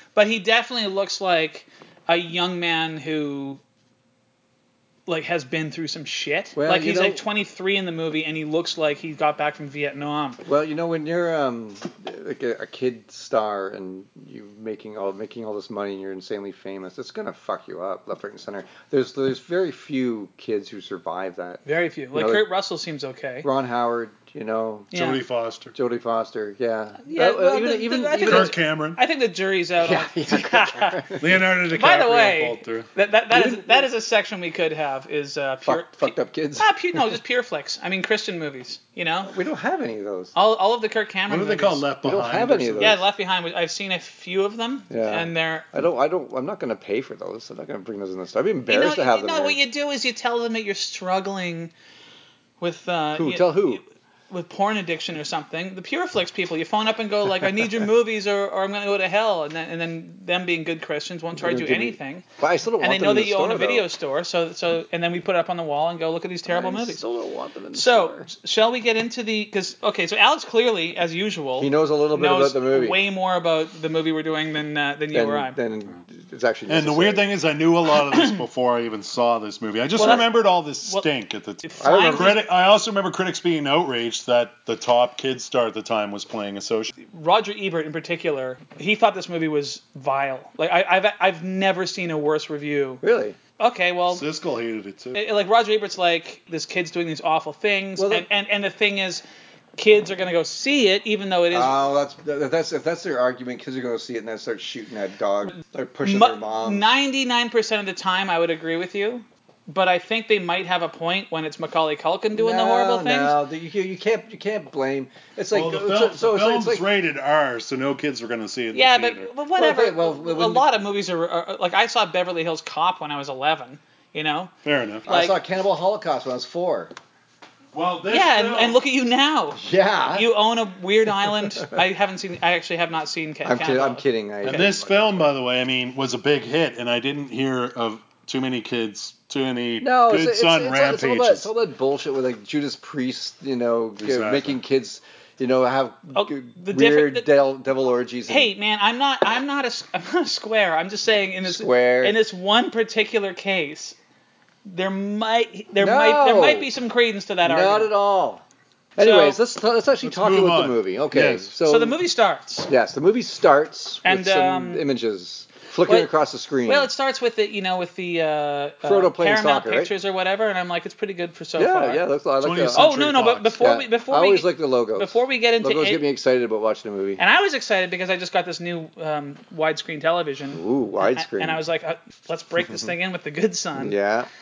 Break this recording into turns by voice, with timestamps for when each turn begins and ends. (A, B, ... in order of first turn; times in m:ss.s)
0:00.2-0:03.6 A
0:05.1-0:10.4 A
0:06.6-0:07.2 B
0:10.4-0:22.5 B
0:21.7-0:23.5 A
0:23.4-0:24.9 B
0:24.9-0:25.2 A
0:24.9-0:25.7 C
0:25.7-0:28.6 B
0:27.0-0:31.2 A
0:28.2-0:29.0 C
0:29.8-0:31.3 B
0:31.2-0:32.9 C
0:31.7-0:39.4 A
0:33.3-0:33.9 B
0:35.6-0:37.2 B
0:39.2-0:40.3 B
0:40.4-0:41.9 A
0:41.3-0:43.0 C
0:42.0-0:43.0 B
0:42.8-0:45.7 A
0:44.9-0:49.6 B
0:48.7-0:51.7 A
0:52.6-1:02.2 A
0:53.2-0:53.8 B
1:01.4-1:03.8 B
1:02.8-1:07.0 A
1:06.5-1:08.3 B
1:07.7-1:15.6 A
1:11.6-1:13.0 B
1:15.1-1:17.2 B
1:16.7-1:26.9 C
1:20.0-1:20.2 B
1:20.0-1:20.3 A
1:21.6-1:22.4 A
1:21.8-1:22.4 B
1:27.0-1:33.0 A
1:33.0-1:33.4 B
1:33.6-1:34.2 A
1:34.1-1:35.2 C
1:35.1-1:39.2 A
1:38.0-1:38.3 B
1:39.8-1:41.8 A
1:41.5-1:46.9 B
1:46.0-1:53.4 A
1:52.3-1:56.9 B
1:55.5-1:59.3 C
1:58.7-2:04.5 A
1:59.6-2:00.7 B
2:04.6-2:05.1 C
2:05.1-2:06.9 B
2:05.1-2:05.4 A
2:07.7-2:08.8 C
2:08.1-2:14.6 A
2:09.6-2:10.3 B
2:13.4-2:15.3 B
2:14.4-2:21.5 C
2:19.8-2:28.5 B
2:24.0-2:24.6 C
2:26.1-2:27.3 A
2:28.3-2:34.0 A
2:31.4-2:32.2 B
2:34.6-2:37.9 A
2:35.8-2:36.8 B
2:37.4-2:38.4 B
2:39.0-2:42.0 B
2:39.0-2:39.4 A
2:40.0-2:41.5 C
2:41.6-2:42.7 A
2:42.7-2:46.9 B
2:44.0-2:44.9 A
2:45.8-2:46.1 A
2:46.7-2:52.0 A
2:48.8-2:49.9 B
2:51.6-2:52.9 B
2:52.4-2:53.6 C
2:52.7-2:56.1 A
2:53.6-2:57.2 B
2:57.2-3:04.0 A
3:00.5-3:01.6 B
3:03.8-3:04.3 B